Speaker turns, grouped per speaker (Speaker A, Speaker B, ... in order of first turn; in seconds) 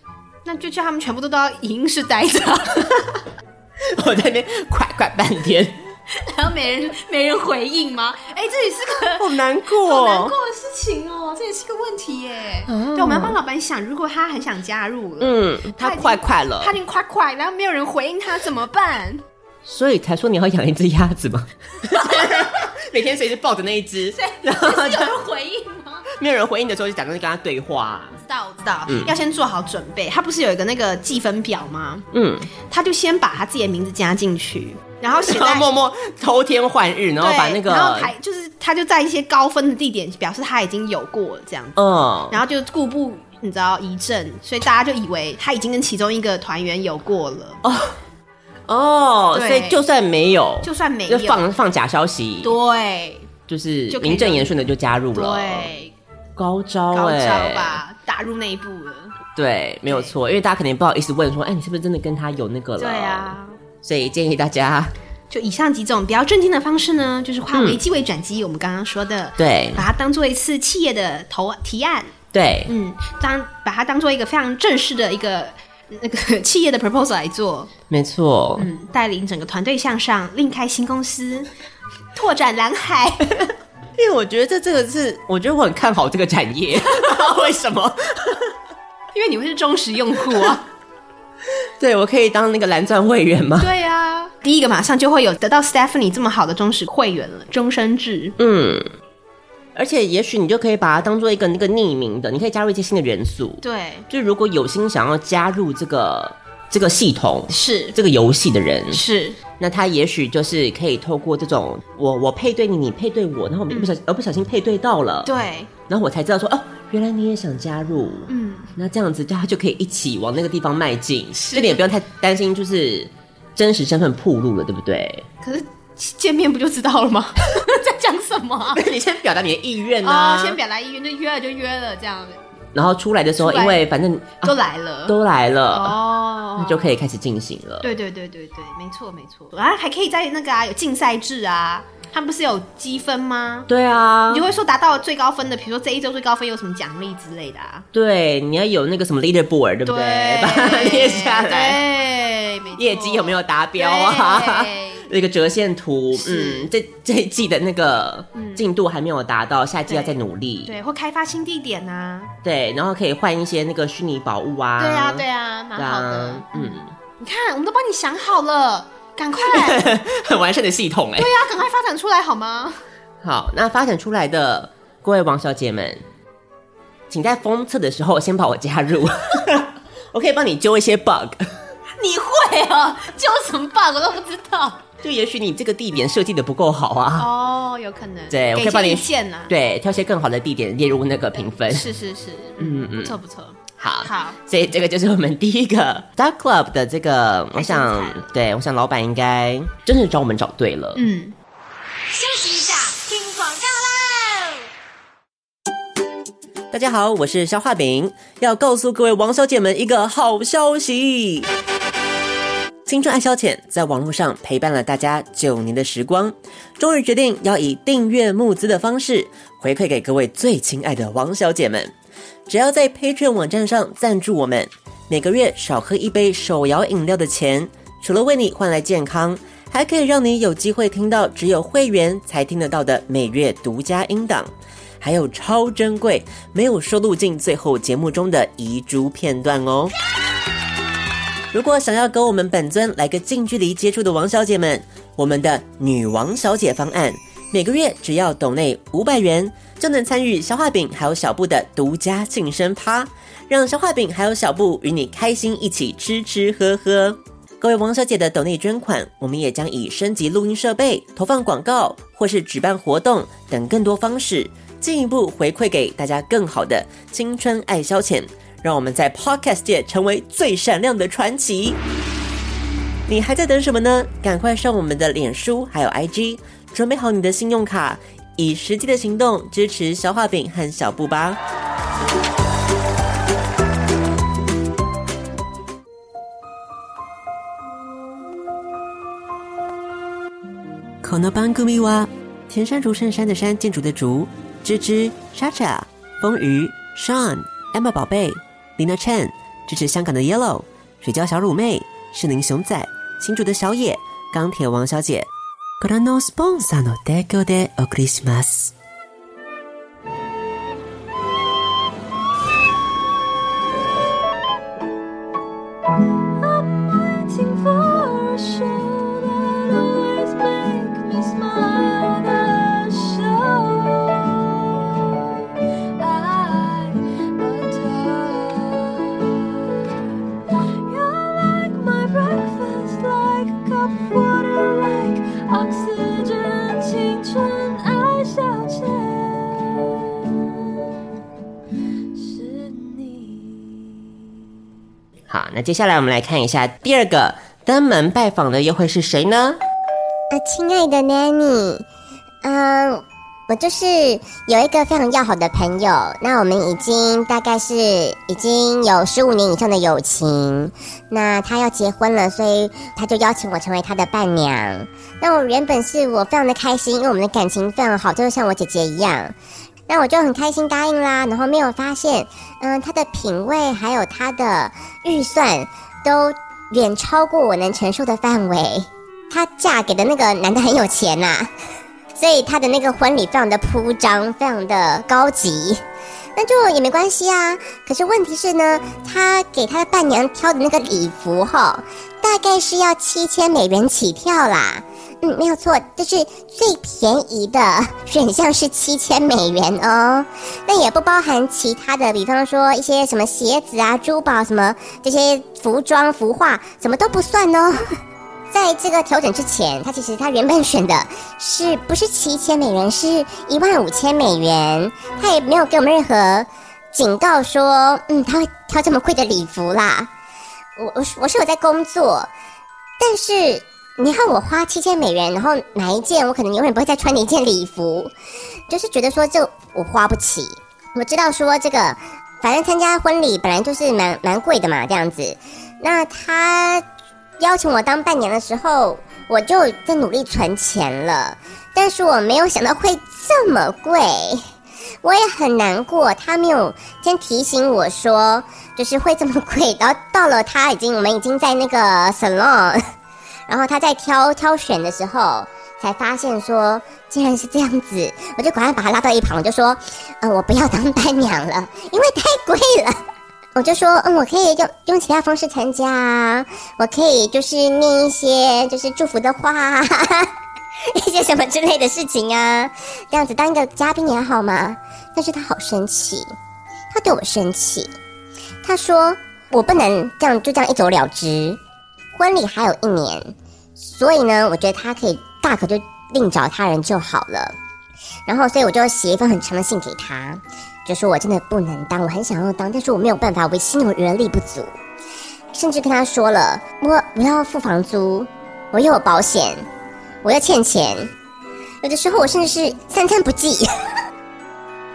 Speaker A: 0.4-3.0, 6.1-19.2, 21.9-22.4, 24.1-26.1, 28.2-32.0, 32.7-35.7, 37.2-41.8, 42.3-47.6, 49.3-49.8, 50.6-51.5, 52.4-53.3, 53.9-54.5, 55.1-55.9, 56.9-59.2, 59.9-60.1, 62.8-63.5, 65.3-72.1, 72.7-77.7, 78.6-81.5, 82.1-83.5, 89.1-90.6, 93.6-98.3, 103.6-104.0, 107.5-108.0, 108.9-109.4, 113.7-114.0, 115.2-115.7, 118.3-118.7, 121.5-121.8, 125.4-128.8, 130.0-132.4, 133.4-133.8, 134.4-135.2, 135.7-136.9, 137.8-143.7, 144.3-147.8, 149.8-155.1, 156.1-156.7, 158.3-158.7, 159.9-162.3, 164.8-169.9, 171.2-172.8, 182.0-184.8, 187.2-189.5, 191.7-194.4, 197.6-198.3, 200.9-201.3, 202.1-204.6
Speaker B: 3.8-5.8, 9.1-10.3, 12.7-13.4, 15.2-16.7, 19.6-25.1, 26.1-28.2, 28.9-29.1, 32.1-32.5, 35.1-38.1, 41.8-42.4, 47.6-48.0, 48.7-52.5, 53.5-55.7, 56.4-57.8, 59.4-64.9, 67.5-67.8, 69.4-69.8, 72.3-72.7, 77.9-78.7, 84.0-88.5, 91.8-93.7, 98.4-98.9, 99.7-109.0, 109.6-115.3, 115.9-125.3, 128.7-130.6, 132.7-136.0, 136.6-137.9, 143.7-144.4, 147.9-151.8, 152.8-160.7, 162.4-166.9, 169.4-171.3, 173.2-176.0, 177.1-181.5, 185.0-187.3, 188.3-191.9, 192.6-193.2, 193.8-201.0, 206.7-211.5, 212.8-221.9, 222.5-239.9, 241.5-271.8, 273.1-281.4, 291.0-305.3, 305.8-308.7, 345.3-349.6
Speaker C: 316.4-324.9, 326.0-329.6, 330.9-340.6, 342.1-343.8
Speaker D: 350.3-351.8, 352.4-369.3, 369.9-381.5, 382.1-385.8, 386.4-407.8, 408.5-420.1, 420.8-422.3, 423.0-428.1, 428.7-436.8, 437.4-444.4, 445.0-452.8, 453.5-463.0, 463.6-470.3, 470.9-476.3, 476.9-477.9, 478.6-481.6, 482.1-487.5, 488.3-494.7, 495.5-499.6, 500.2-501.1, 501.8-503.7